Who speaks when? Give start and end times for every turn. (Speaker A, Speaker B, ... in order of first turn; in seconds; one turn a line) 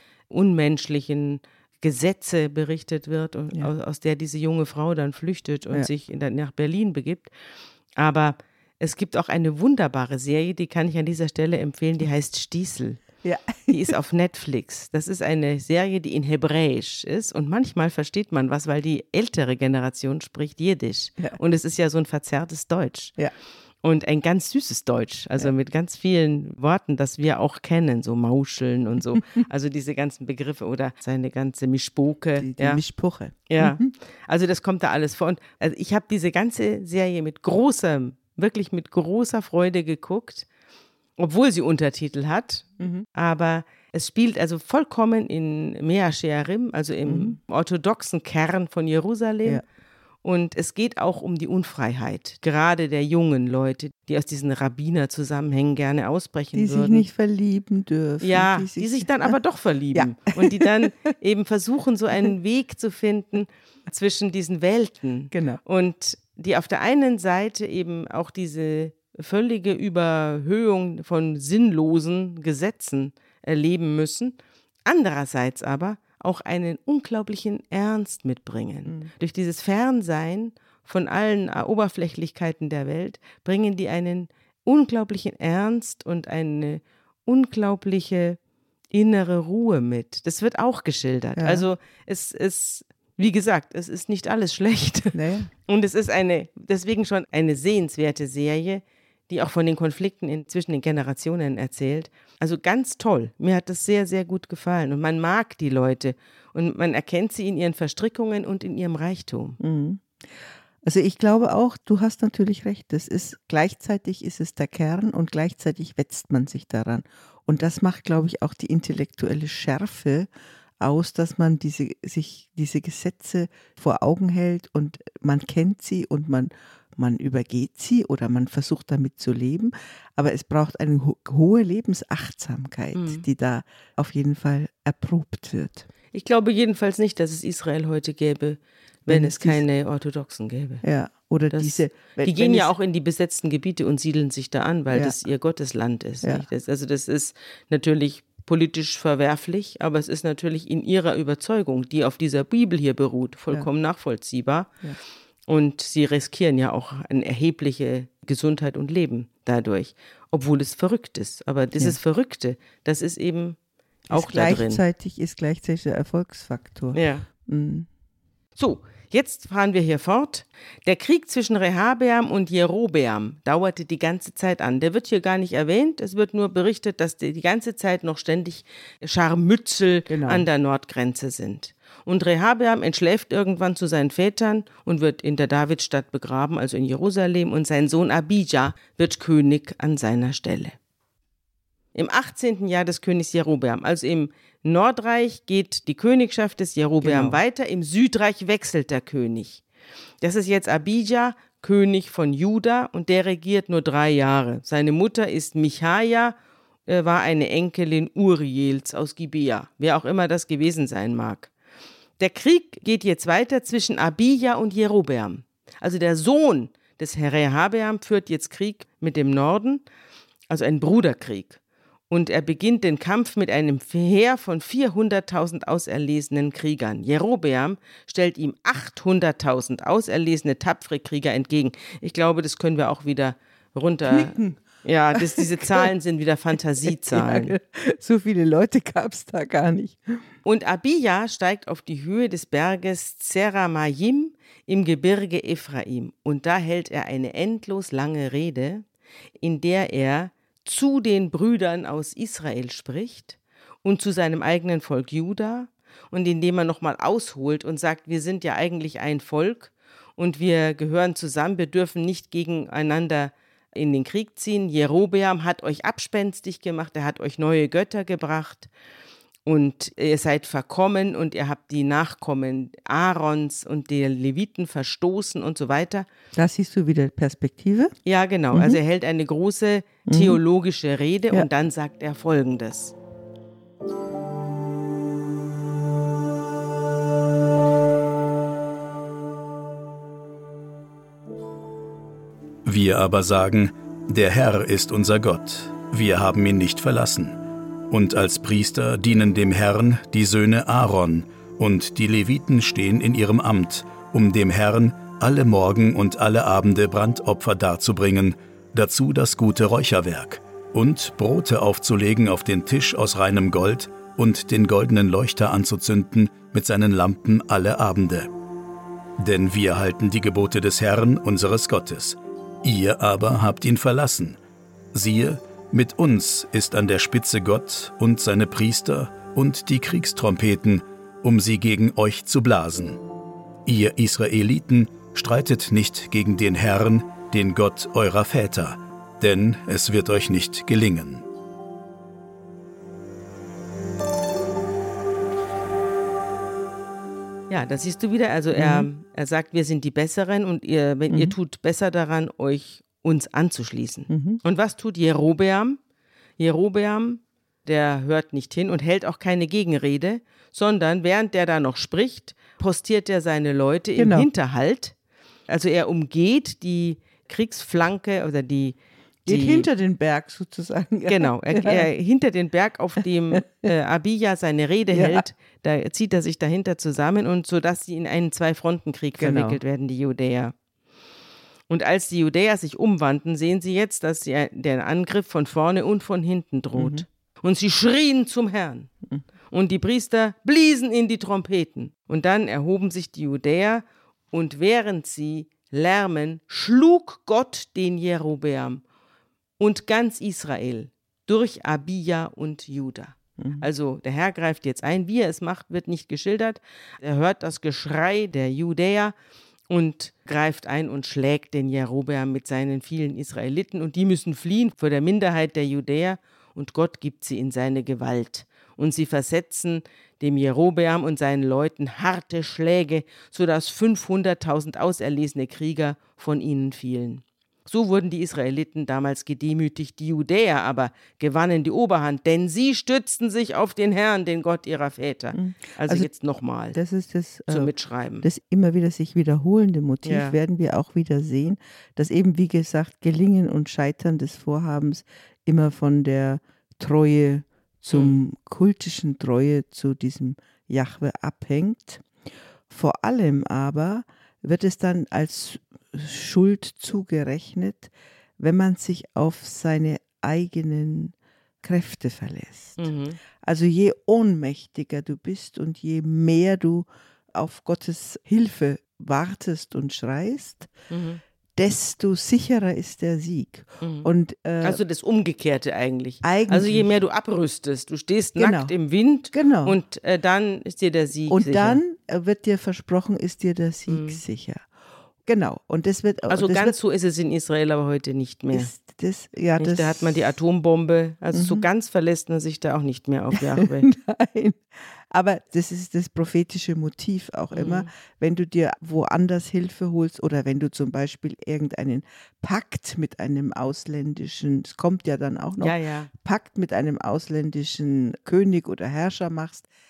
Speaker A: 0.3-7.3
Speaker A: 8.0-13.0
Speaker B: 13.2-13.9
Speaker A: 13.7-23.1
Speaker A: 23.8-32.8
Speaker B: 32.4-33.9
Speaker A: 33.5-40.5
Speaker A: 41.2-49.6
Speaker B: 42.8-43.1
Speaker B: 47.1-47.4
Speaker A: 50.2-57.1
Speaker B: 56.5-59.3
Speaker A: 58.2-88.4
Speaker B: 59.9-60.9
Speaker B: 65.3-65.6
Speaker A: 88.9-109.6
Speaker B: 91.4-91.7
Speaker B: 95.1-95.5
Speaker B: 109.6-110.1
Speaker B: 110.8-120.3
Speaker B: 120.8-135.9
Speaker A: 132.9-133.2
Speaker A: 136.1-140.8
Speaker B: 139.1-139.6
Speaker B: 140.8-142.7
Speaker A: 141.5-154.7
Speaker A: 155.5-163.6
Speaker A: 164.1-164.8
Speaker B: 164.1-167.9
Speaker A: 166.9-167.3
Speaker A: 168.6-190.8
Speaker B: 180.1-180.5
Speaker A: 191.9-199.6
Speaker B: 197.0-197.4
Speaker A: 200.2-206.4
Speaker A: 206.9-211.5
Speaker A: 212.2-219.8
Speaker A: 220.5-221.6
Speaker A: 222.1-237.6
Speaker B: 234.1-234.5
Speaker B: 235.2-235.9
Speaker B: 236.8-240.2
Speaker A: 240.4-248.8
Speaker A: 249.4-268.7
Speaker A: 269.5-276.1
Speaker B: 276.3-277.9
Speaker A: 278.1-283.0
Speaker B: 278.5-278.8
Speaker B: 280.1-280.4
Speaker C: 292.7-297.4
Speaker C: 297.9-318.3
Speaker C: 319.2-324.4
Speaker C: 324.9-333.0
Speaker C: 333.7-341.2
Speaker A: 347.5-355.8
Speaker B: 348.6-348.9
Speaker B: 351.1-351.4
Speaker B: 354.1-354.4
Speaker A: 356.4-364.9
Speaker B: 364.0-364.3
Speaker A: 365.5-369.7
Speaker B: 369.3-371.9
Speaker A: 371.1-380.5
Speaker B: 374.9-375.2
Speaker B: 379.2-379.6
Speaker A: 381.7-388.9
Speaker B: 386.8-387.1
Speaker A: 389.5-398.8
Speaker A: 399.6-409.1
Speaker B: 403.4-403.7
Speaker A: 409.7-436.8
Speaker B: 435.4-436.1
Speaker B: 436.7-437.7
Speaker A: 437.5-438.3
Speaker B: 438.2-452.1
Speaker A: 440.0-440.4
Speaker B: 452.7-462.8
Speaker A: 462.8-463.2
Speaker B: 463.4-470.7
Speaker A: 470.9-471.2
Speaker B: 471.6-474.8
Speaker A: 473.8-474.1
Speaker A: 474.6-481.8
Speaker B: 476.2-476.9
Speaker B: 478.4-478.7
Speaker B: 479.3-479.8
Speaker B: 481.3-484.6
Speaker A: 483.9-484.2
Speaker B: 485.3-486.8
Speaker A: 486.3-488.7
Speaker B: 488.5-490.3
Speaker A: 489.6-493.9
Speaker B: 491.3-491.6
Speaker B: 493.3-509.7
Speaker A: 497.5-497.9
Speaker A: 505.6-506.1